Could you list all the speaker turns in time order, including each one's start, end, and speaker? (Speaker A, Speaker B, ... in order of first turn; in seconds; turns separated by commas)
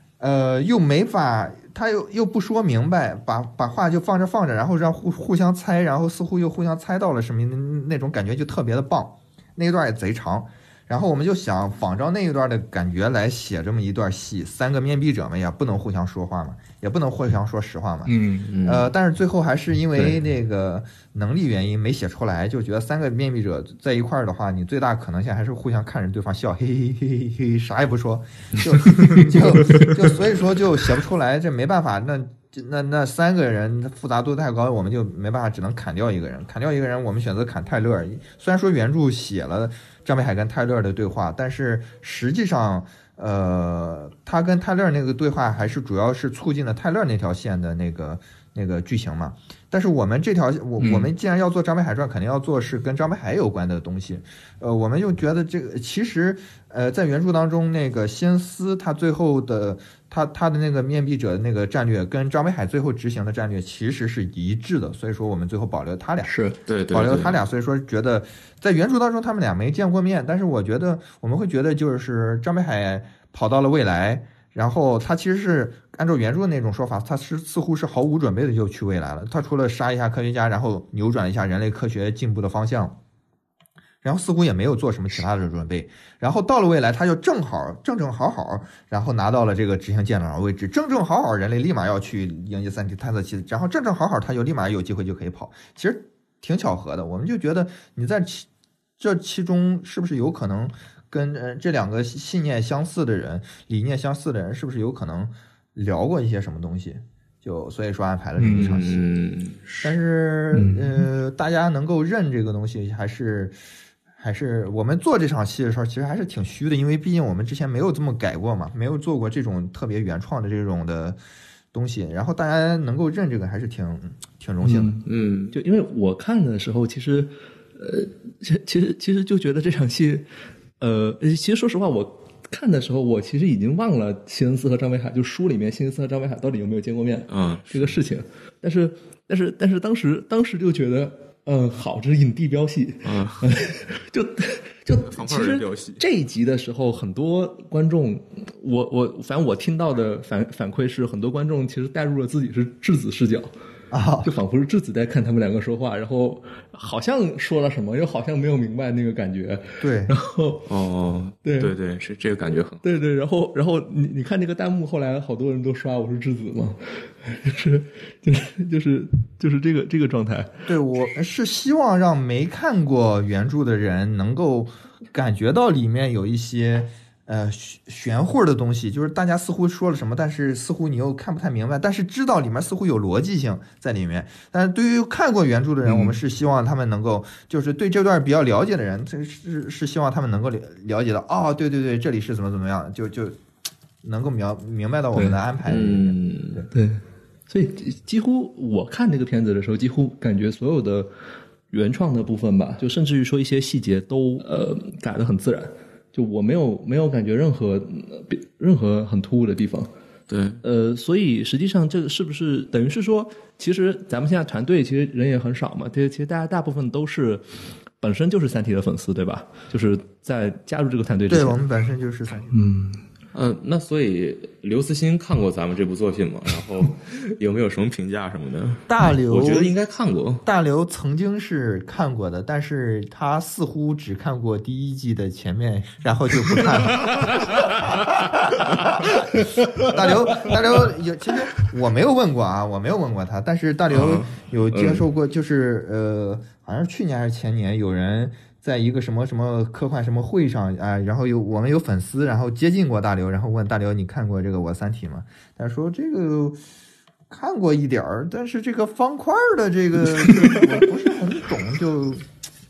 Speaker A: 0.2-18.1, Speaker B: 18.1-18.5, Speaker C: 18.5-18.9, Speaker A: 18.6-66.3, Speaker B: 66.2-66.5, Speaker C: 66.7-67.4, Speaker A: 66.9-83.0, Speaker A: 84.0-98.5, Speaker A: 99.0-109.0, Speaker B: 108.4-108.8, Speaker C: 108.5-109.8, Speaker A: 109.8-113.6, Speaker B: 110.5-111.0, Speaker A: 114.2-121.2, Speaker A: 121.7-124.9, Speaker B: 124.6-130.3, Speaker C: 125.0-125.5, Speaker B: 130.8-153.5, Speaker C: 137.3-137.9, Speaker C: 143.0-143.5, Speaker C: 145.0-146.0, Speaker A: 153.9-154.3, Speaker B: 154.2-160.7, Speaker A: 159.8-160.1, Speaker C: 160.7-162.8, Speaker B: 161.4-161.7, Speaker B: 162.8-170.5, Speaker A: 170.7-193.4, Speaker B: 185.8-186.2, Speaker A: 194.0-196.7, Speaker C: 195.7-196.6, Speaker B: 196.7-201.1, Speaker B: 201.7-209.9, Speaker C: 210.3-210.6, Speaker B: 210.6-217.4, Speaker B: 218.0-221.6, Speaker A: 221.3-222.5, Speaker B: 222.5-223.0, Speaker C: 223.3-230.4, Speaker A: 228.9-229.7, Speaker A: 230.4-239.2, Speaker B: 239.3-239.9, Speaker A: 239.8-256.6, Speaker C: 243.9-245.0, Speaker A: 257.3-262.2